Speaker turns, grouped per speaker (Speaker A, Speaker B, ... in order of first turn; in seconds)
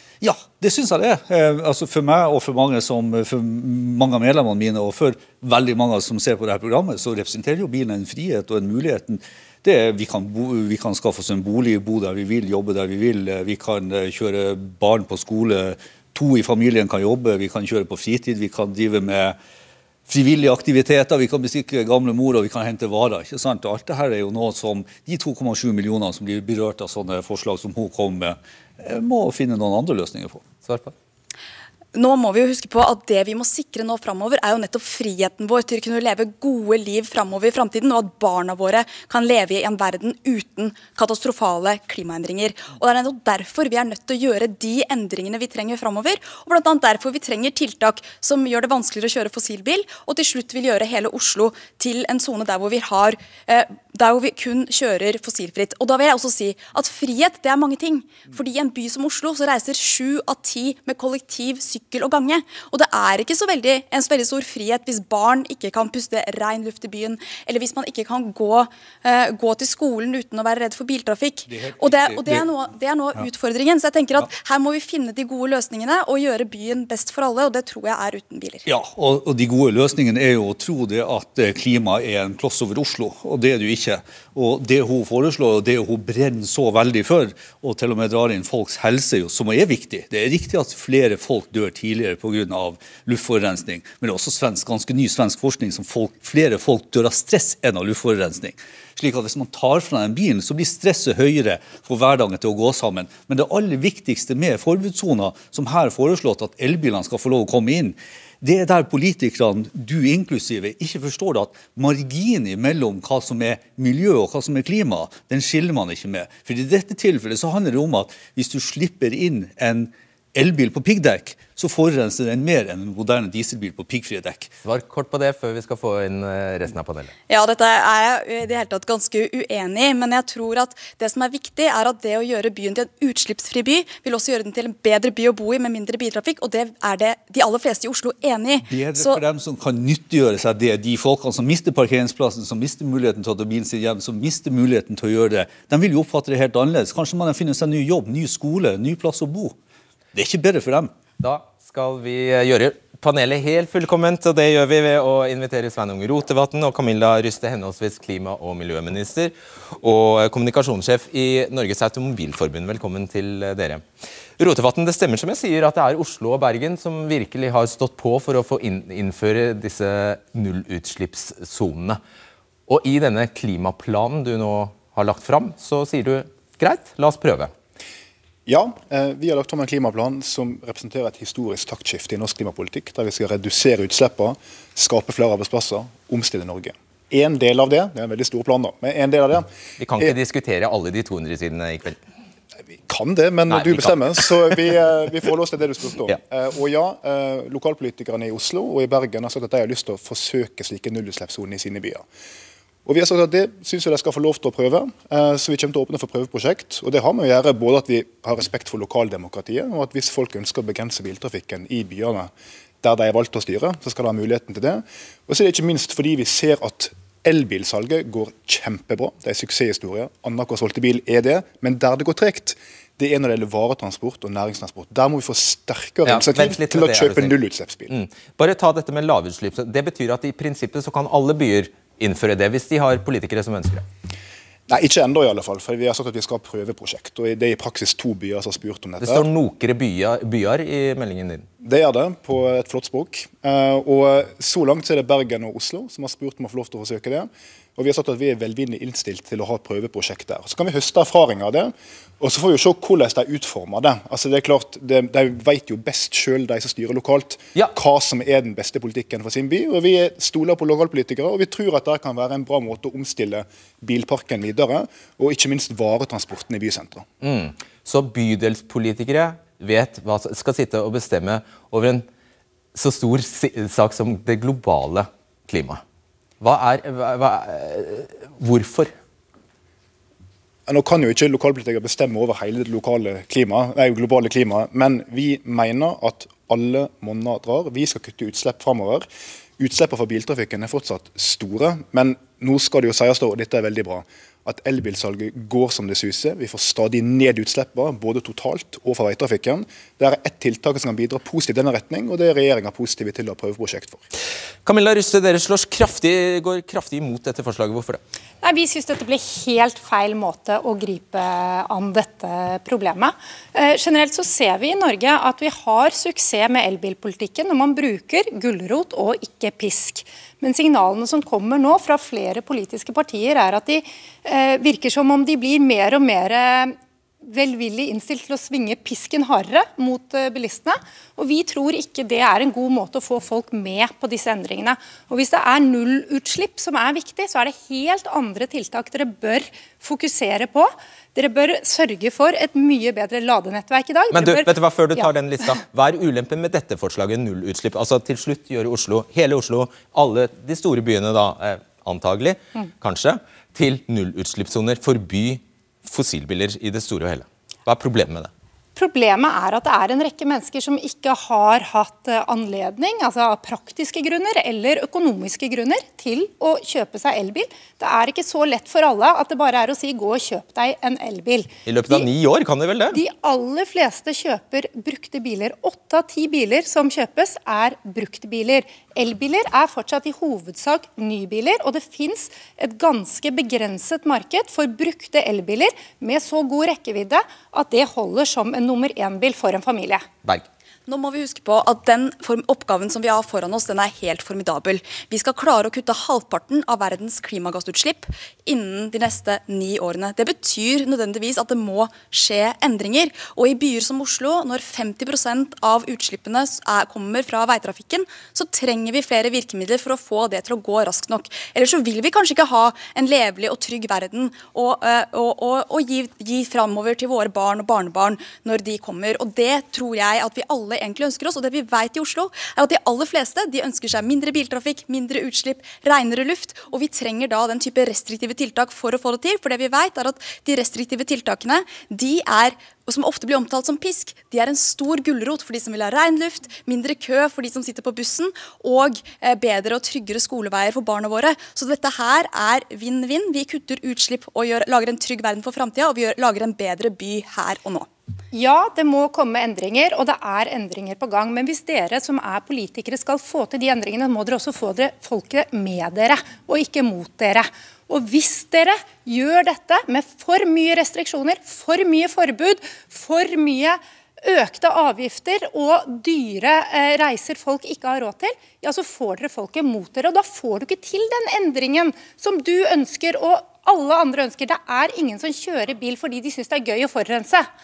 Speaker A: 0.2-19.4, 20.1-30.5, 71.5-72.5, 78.7-124.5, 138.7-149.5, 150.1-150.9
Speaker B: 30.6-30.9, 124.6-127.1, 151.2-163.8, 164.4-172.0, 172.7-177.5, 189.8-192.0, 193.5-194.5, 226.0-233.8, 239.0-241.4, 267.2-272.1, 272.7-275.8, 276.4-278.9, 304.6-308.0, 344.1-358.3, 371.6-373.0
Speaker C: 31.9-78.6, 127.3-139.2, 390.9-447.9
Speaker D: 178.4-189.5, 192.7-202.0, 202.8-212.3, 212.8-227.9, 234.7-239.3, 241.6-267.1, 280.7-304.0
Speaker E: 308.4-345.1, 358.8-372.1, 372.9-390.0, 448.3-477.5